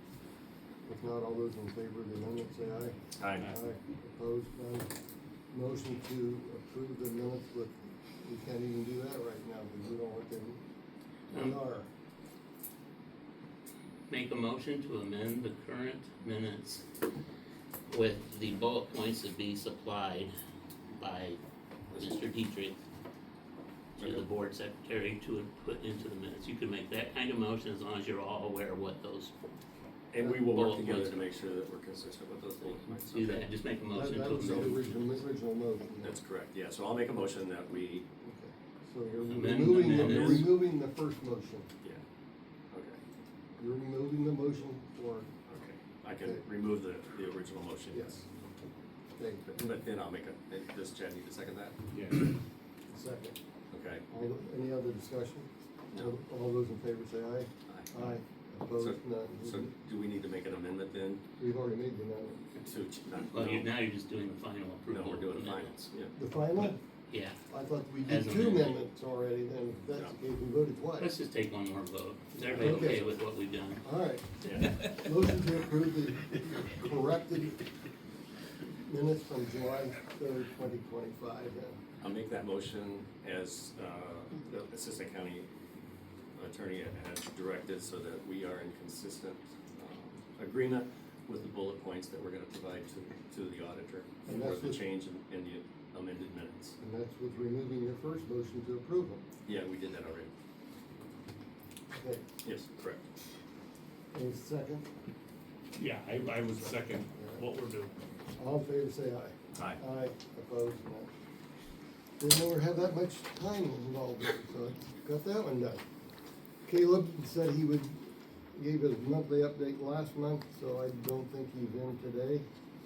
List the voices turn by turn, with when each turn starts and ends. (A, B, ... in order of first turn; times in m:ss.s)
0:00.8-0:04.9 A
0:03.2-0:03.5 B
0:05.5-0:10.6 A
0:11.3-0:11.9 A
0:14.1-0:16.8 C
0:17.9-0:20.3 C
0:20.9-0:21.4 C
0:21.9-0:22.2 B
0:22.0-0:22.8 C
0:24.0-0:24.3 B
0:24.0-0:29.3 C
0:30.1-0:33.5 B
0:30.4-0:31.2 C
0:33.1-0:35.0 C
0:33.9-0:36.2 A
0:34.2-0:34.9 B
0:36.0-0:38.1 B
0:38.2-0:41.7 A
0:39.2-0:40.6 C
0:39.8-0:40.5 B
0:42.7-0:43.0 B
0:43.6-0:45.3 A
0:45.5-0:48.2 B
0:46.2-0:46.4 A
0:47.9-0:48.2 A
0:49.2-0:49.8 A
0:49.6-0:51.8 B
0:51.9-0:52.3 D
0:52.9-0:53.4 A
0:53.7-0:54.1 B
0:54.1-0:59.7 A
0:57.7-0:58.0 B
0:58.8-1:01.2 B
1:01.4-1:02.4 A
1:02.6-1:03.7 B
1:03.3-1:05.7 C
1:04.9-1:06.1 B
1:06.2-1:06.8 A
1:06.6-1:07.4 C
1:07.5-1:11.1 A
1:08.1-1:08.8 C
1:11.0-1:13.8 C
1:12.5-1:13.2 A
1:12.6-1:13.0 B
1:13.8-1:17.6 A
1:14.4-1:14.8 B
1:18.8-1:21.8 A
1:22.0-1:25.5 B
1:26.3-1:36.8 B
1:34.3-1:34.8 A
1:36.8-1:39.2 A
1:39.5-1:40.3 B
1:41.9-1:42.2 A
1:42.4-1:43.0 B
1:44.1-1:44.8 A
1:45.8-1:48.0 D
1:47.2-1:47.4 A
1:48.4-1:51.1 A
1:49.6-1:49.8 B
1:52.2-1:55.8 A
1:56.6-2:02.5 A